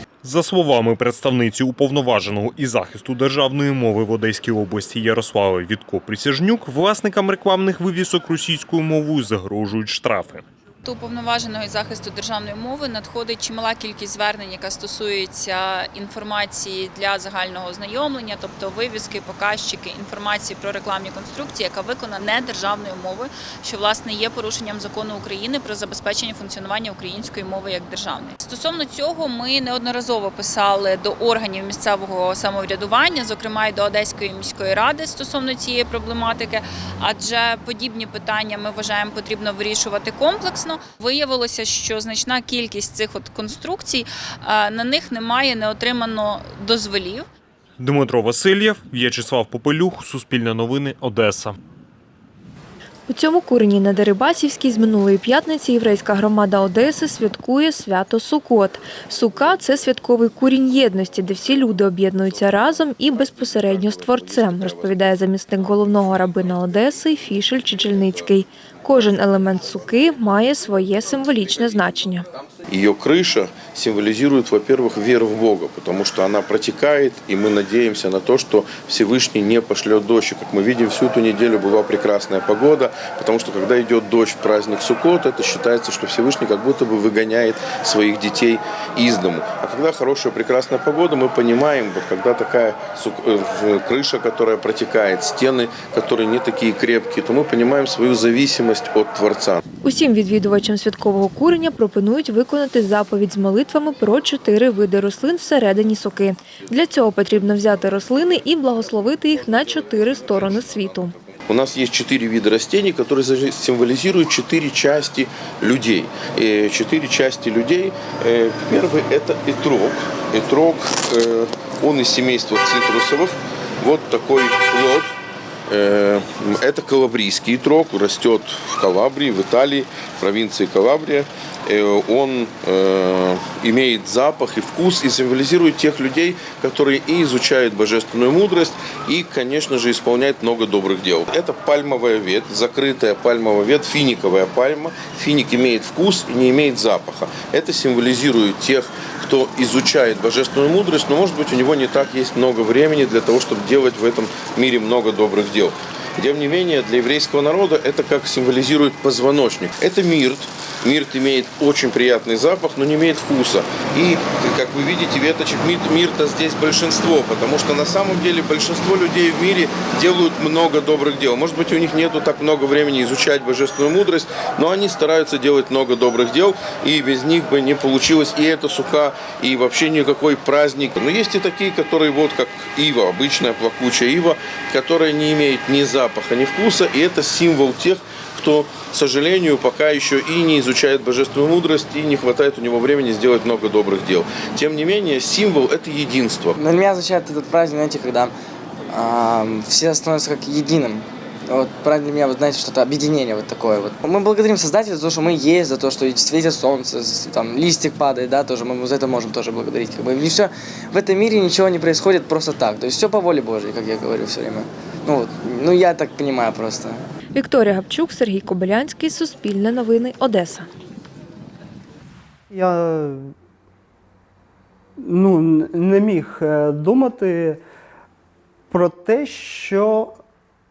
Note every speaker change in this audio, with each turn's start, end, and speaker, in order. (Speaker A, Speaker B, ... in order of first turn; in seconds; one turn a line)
Speaker A: 0.2-10.4
Speaker B: 10.8-47.3
Speaker A: 47.8-51.5
Speaker C: 53.1-72.3
Speaker D: 72.7-99.6
Speaker C: 99.8-111.2
Speaker D: 111.5-125.2
Speaker D: 125.7-196.6
Speaker E: 196.6-198.3
Speaker E: 198.9-217.0
Speaker C: 217.3-220.7
Speaker F: 222.5-223.3
Speaker F: 225.0-227.6
Speaker F: 228.7-230.1